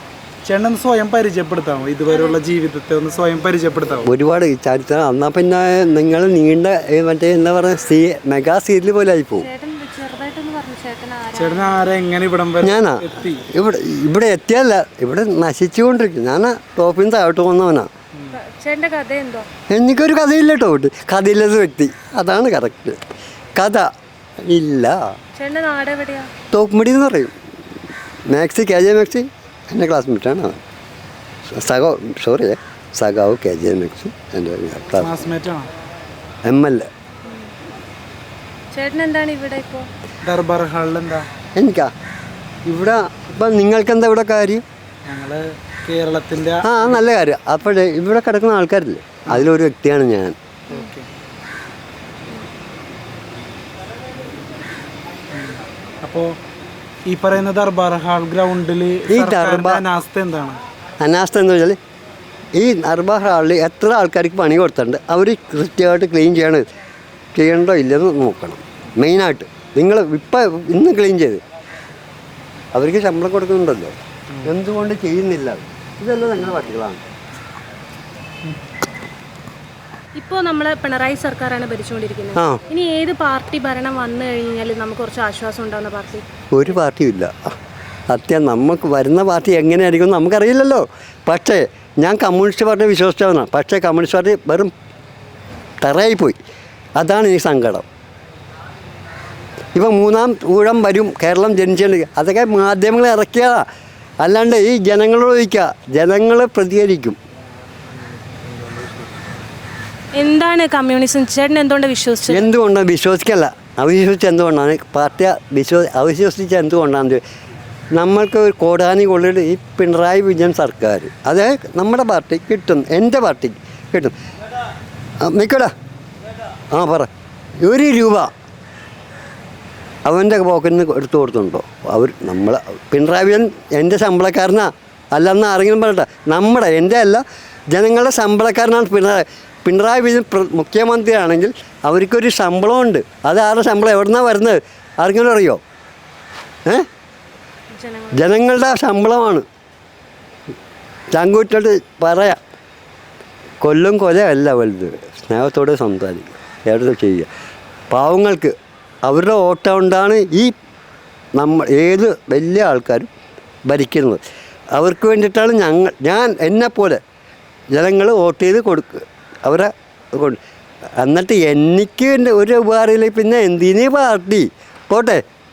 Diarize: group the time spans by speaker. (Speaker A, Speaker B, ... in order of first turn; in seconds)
Speaker A: 0.5-4.1, 11.4-13.5, 35.0-35.7, 40.2-41.3, 45.1-47.0, 50.7-51.1, 55.3-56.3, 57.1-60.6, 108.5-109.1
Speaker B: 2.1-2.4, 9.4-11.9, 18.3-19.5, 25.4-26.3, 38.7-39.9, 80.2-86.2, 110.2-112.5, 147.7-148.3
Speaker C: 4.0-9.5, 12.6-17.9, 19.7-23.0, 23.6-23.9, 24.5-25.1, 26.5-27.3, 28.3-30.6, 31.5-35.1, 36.5-36.9, 41.5-41.9, 42.7-44.6, 46.6-50.4, 59.1-59.8, 61.0-61.8, 62.5-66.6, 67.3-71.4, 72.7-77.0, 82.3-82.6, 86.5-87.5, 88.1-94.7, 95.8-96.4, 97.0-97.9, 99.8-103.6, 104.2-107.2, 112.3-117.2, 118.0-124.1, 125.2-125.7, 126.7-127.1, 127.6-128.3, 130.1-145.6, 148.1-149.4, 151.1-152.4, 153.6-157.3, 157.9-158.6, 159.1-160.5, 161.4-163.1, 163.7-164.2, 164.8-167.0, 167.7-170.4, 171.0-175.2